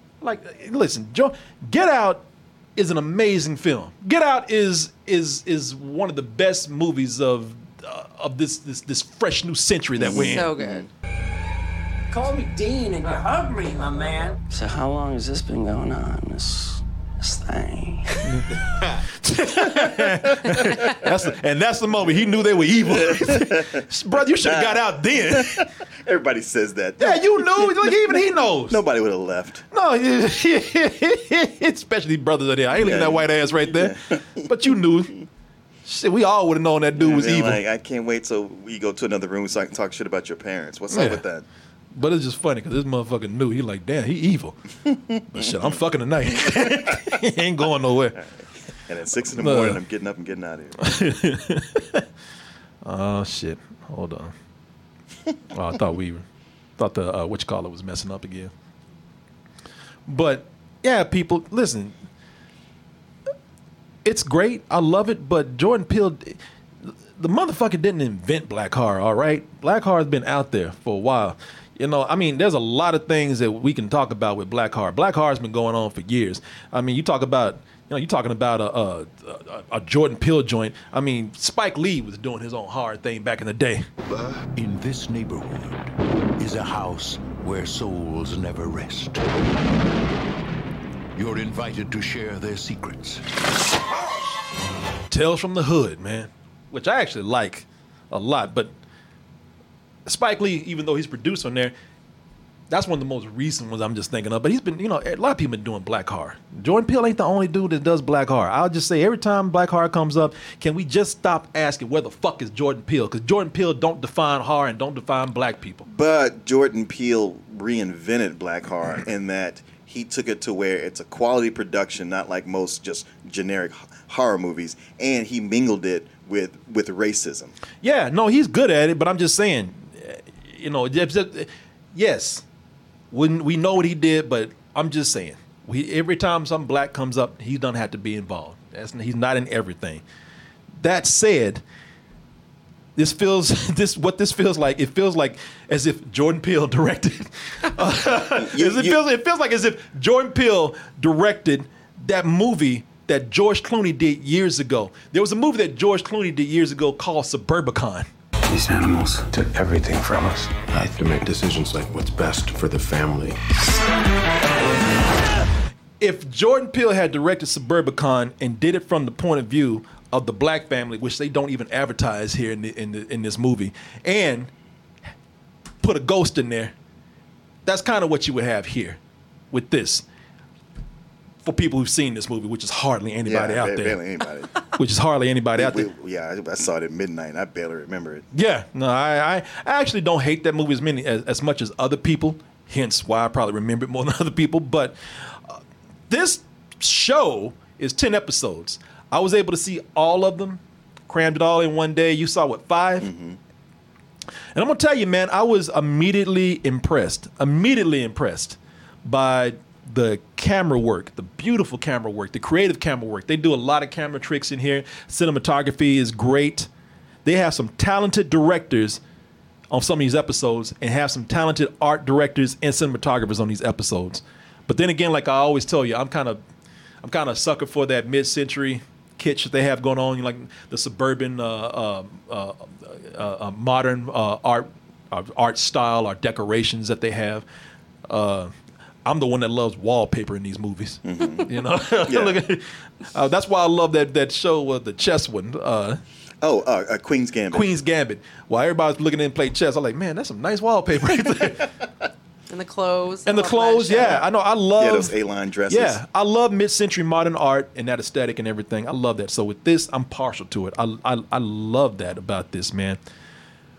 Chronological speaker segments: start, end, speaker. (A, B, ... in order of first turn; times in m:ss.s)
0:00.2-0:02.2 A
0:02.8-0:10.5 A
0:10.0-0:10.9 B
0:10.1-0:10.9 C
0:12.1-0:14.4 D
0:14.5-0:18.4 E
0:19.0-0:25.6 A
0:22.0-0:23.8 B
0:24.4-0:29.6 B
0:27.0-0:28.8 A
0:29.7-0:35.1 A
0:32.8-0:34.4 B
0:35.8-0:37.6 A
0:37.0-0:41.4 B
0:40.9-0:41.2 A
0:41.9-0:44.6 A
0:44.9-0:45.8 B
0:45.3-0:48.2 A
0:46.3-0:47.1 B
0:48.8-0:50.8 B
0:49.4-0:49.8 A
0:50.8-0:52.0 A
0:52.8-0:54.3 A
0:55.5-0:56.2 A
0:56.8-0:58.5 A
1:00.1-1:02.0 A
1:04.0-1:23.9 A
1:24.5-1:25.8 F
1:26.4-1:29.4 F
1:31.1-1:33.2 F
1:35.1-1:38.7 A
1:40.0-1:41.7 A
1:42.7-1:55.8 A
1:55.9-2:07.6 B
2:07.8-2:12.4 A
2:13.1-2:20.0 A
2:20.8-2:21.6 A
2:23.0-2:38.0 A
2:28.1-2:29.0 B
2:38.6-2:43.4 G
2:46.0-2:54.5 A
2:55.8-2:56.7 A
2:57.6-2:59.0 A
2:59.5-3:00.0 A
3:01.4-3:04.0 A
3:03.2-3:04.7 B
3:04.7-3:05.8 A
3:05.6-3:08.2 B
3:08.3-3:23.1 A
3:23.0-3:23.4 B
3:24.5-3:36.7 A
3:37.2-3:39.0 A
3:39.7-3:46.4 A
3:47.0-3:57.4 A
3:58.1-3:58.5 A
3:59.0-4:06.0 A
4:01.0-4:01.5 B
4:02.0-4:02.4 B
4:06.4-4:07.7 B
4:07.5-4:11.7 A
4:12.5-4:14.2 C
4:13.2-4:15.1 A
4:14.0-4:14.2 B
4:14.8-4:16.0 B
4:15.7-4:23.0 A